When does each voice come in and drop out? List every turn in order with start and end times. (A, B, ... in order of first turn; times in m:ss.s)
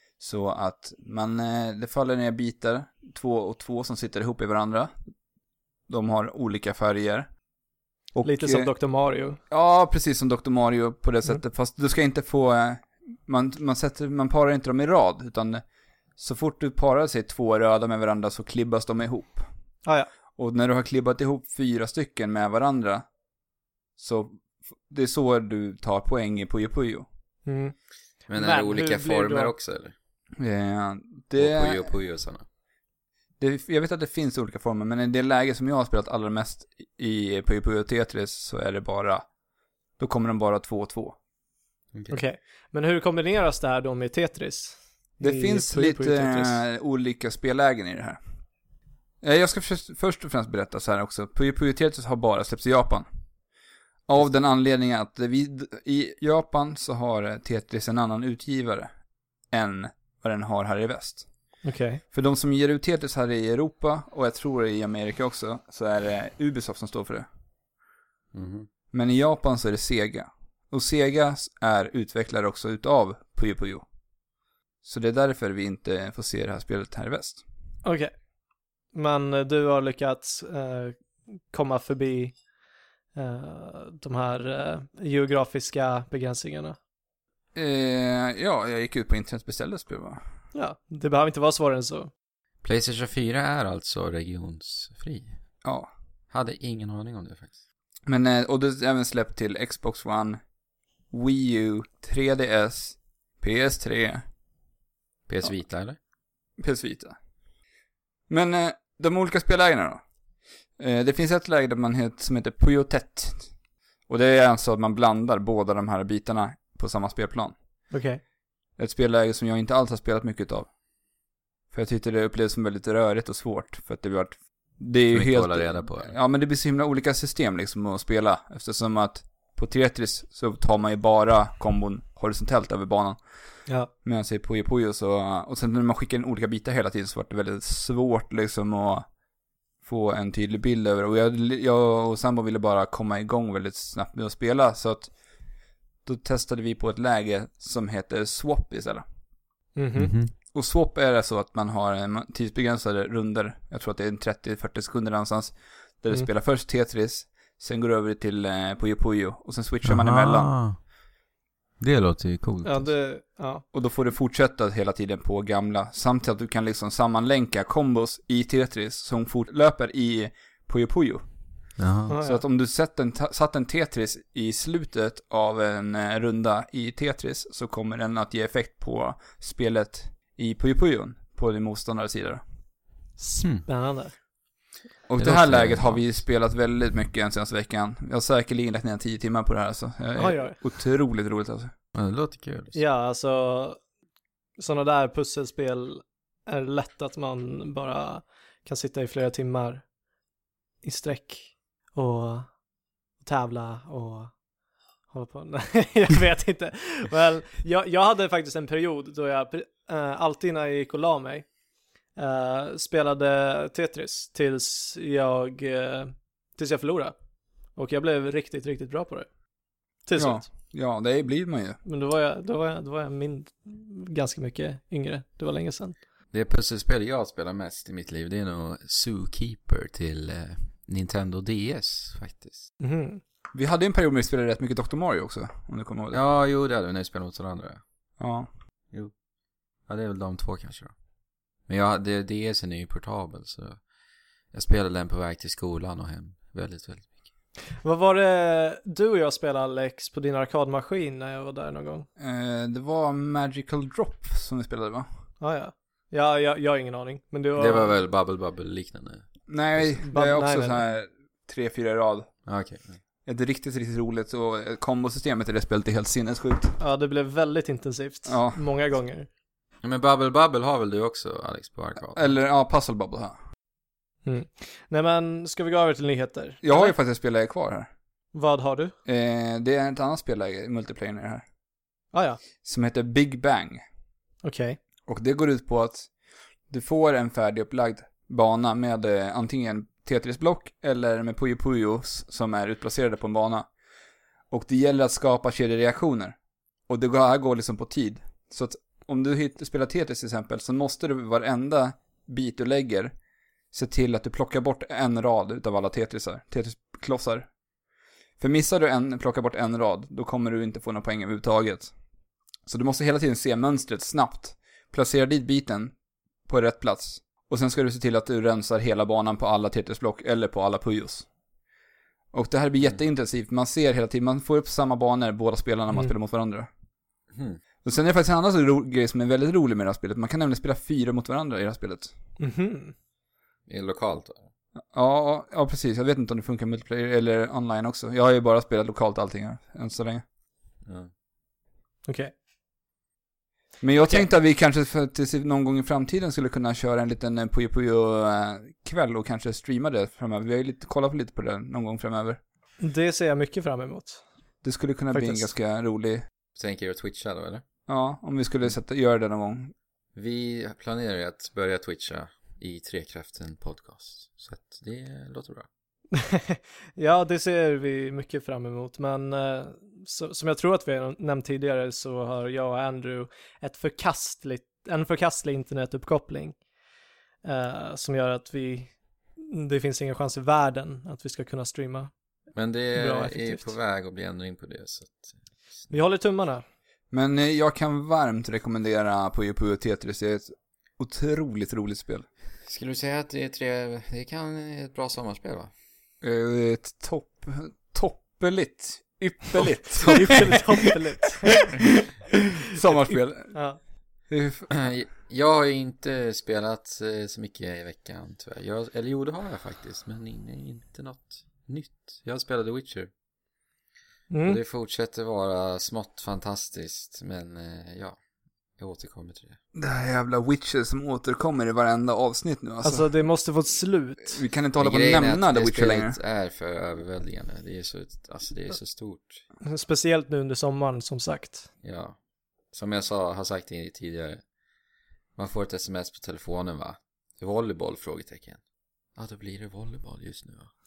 0:00.2-0:04.9 A
0:05.9-0:07.3 A
0:08.1-0:08.7 A
0:08.2-0:09.4 B
0:09.5-0:15.6 A
0:16.2-0:19.5 A
0:20.4-0:23.0 A
0:24.0-0:27.1 A
0:27.4-0:27.7 B
0:28.3-0:29.9 C
0:28.3-0:29.5 B
0:30.4-0:31.8 A
0:31.4-0:32.4 C
0:33.4-0:39.2 A
0:40.0-0:41.2 A
0:41.9-0:42.2 C
0:42.1-0:46.6 B
0:45.2-0:48.2 A
0:49.2-0:53.0 A
0:54.1-0:58.9 A
0:59.5-1:01.2 A
1:01.6-1:02.0 B
1:02.1-1:07.3 A
1:08.3-1:08.7 C
1:08.9-1:13.8 A
1:14.8-1:17.4 A
1:17.8-1:18.1 B
1:18.9-1:21.0 B
1:21.5-1:22.4 B
1:23.1-1:26.8 B
1:27.5-1:30.2 A
1:30.5-1:32.1 B
1:32.6-1:35.4 C
1:35.6-1:35.9 A
1:36.3-1:37.5 C
1:38.0-1:40.4 A
1:41.1-1:44.2 A
1:45.3-1:46.0 C
1:46.6-1:47.1 A
1:48.3-1:50.0 A
1:50.8-1:53.5 A
1:54.1-1:57.5 A
1:57.9-1:58.2 B
1:58.8-2:00.7 A
2:01.7-2:13.2 A
2:05.1-2:06.1 C
2:14.0-2:19.0 A
2:19.8-2:25.1 A
2:26.0-2:29.0 A
2:29.8-2:30.1 B
2:30.0-2:30.3 C
2:30.5-2:40.5 A
2:39.8-2:40.8 C
2:41.8-2:42.9 C
2:42.6-2:43.6 B
2:43.7-2:51.2 A
2:51.8-2:52.1 C
2:52.1-2:52.4 B
2:52.2-3:02.4 A
3:03.2-3:04.1 B
3:03.4-3:03.6 C
3:05.1-3:11.7 A
3:05.2-3:06.0 C
3:10.2-3:10.6 B
3:11.9-3:12.8 C
3:12.7-3:13.8 B
3:14.6-3:19.8 B
3:20.8-3:22.5 B
3:23.2-3:24.3 B
3:25.1-3:31.4 B
3:32.2-3:37.1 B
3:37.8-3:39.3 B
3:40.1-3:40.4 B
3:40.2-3:41.8 A
3:41.8-3:46.0 B
3:46.3-3:52.7 C
3:52.8-3:53.2 B
3:53.5-3:56.2 A
3:56.1-3:57.8 C
3:58.2-3:58.5 A
3:59.9-4:00.9 C
4:01.7-4:03.8 C
4:04.5-4:07.1 C
4:07.8-4:12.1 B
4:12.2-4:15.1 A
4:15.4-4:17.9 B
4:17.6-4:19.2 C
4:19.5-4:22.3 A
4:20.0-4:20.8 B
4:22.4-4:23.0 C
4:23.2-4:26.8 A
4:26.8-4:29.3 B
4:28.2-4:28.6 A
4:29.8-4:32.3 C
4:32.1-4:33.4 A
4:34.2-4:36.9 B
4:36.6-4:37.9 A
4:38.3-4:38.9 B
4:39.0-4:41.4 A
4:42.1-4:42.4 B
4:42.6-4:43.8 A
4:44.4-4:44.8 B
4:45.1-4:46.1 A
4:46.7-4:53.7 A
4:54.5-4:56.4 A
4:56.9-5:03.1 A
5:03.7-5:07.5 A
5:08.4-5:11.9 A
5:12.7-5:15.9 A
5:16.5-5:21.2 A
5:22.3-5:26.7 A
5:27.3-5:27.6 C
5:27.8-5:32.1 A
5:32.4-5:32.9 B
5:33.7-5:34.5 C
5:34.9-5:40.2 A
5:42.0-5:42.3 B
5:43.8-5:52.4 A
5:44.0-5:44.2 B
5:52.8-5:54.2 B
5:54.6-5:56.2 A
5:55.1-5:55.5 B
5:56.6-5:57.6 C
5:57.9-5:59.7 A
6:00.1-6:05.7 C
6:06.1-6:16.6 B
6:17.4-6:22.1 B
6:22.5-6:25.3 C
6:22.9-6:23.7 B
6:25.9-6:26.6 B
6:27.1-6:32.2 A
6:32.6-6:35.7 C
6:36.2-6:40.6 A
6:40.0-6:41.7 B
6:41.6-6:43.5 A
6:43.5-6:43.8 B
6:44.3-6:44.7 A
6:44.7-6:53.1 C
6:54.3-6:54.6 B
6:54.4-6:58.2 C
6:58.8-6:59.6 C
6:59.7-7:03.0 A
7:02.8-7:04.4 B
7:04.3-7:06.2 A
7:04.8-7:09.4 C
7:09.6-7:11.7 B
7:11.8-7:12.2 C
7:12.7-7:14.4 C
7:15.4-7:18.6 C
7:19.2-7:20.7 C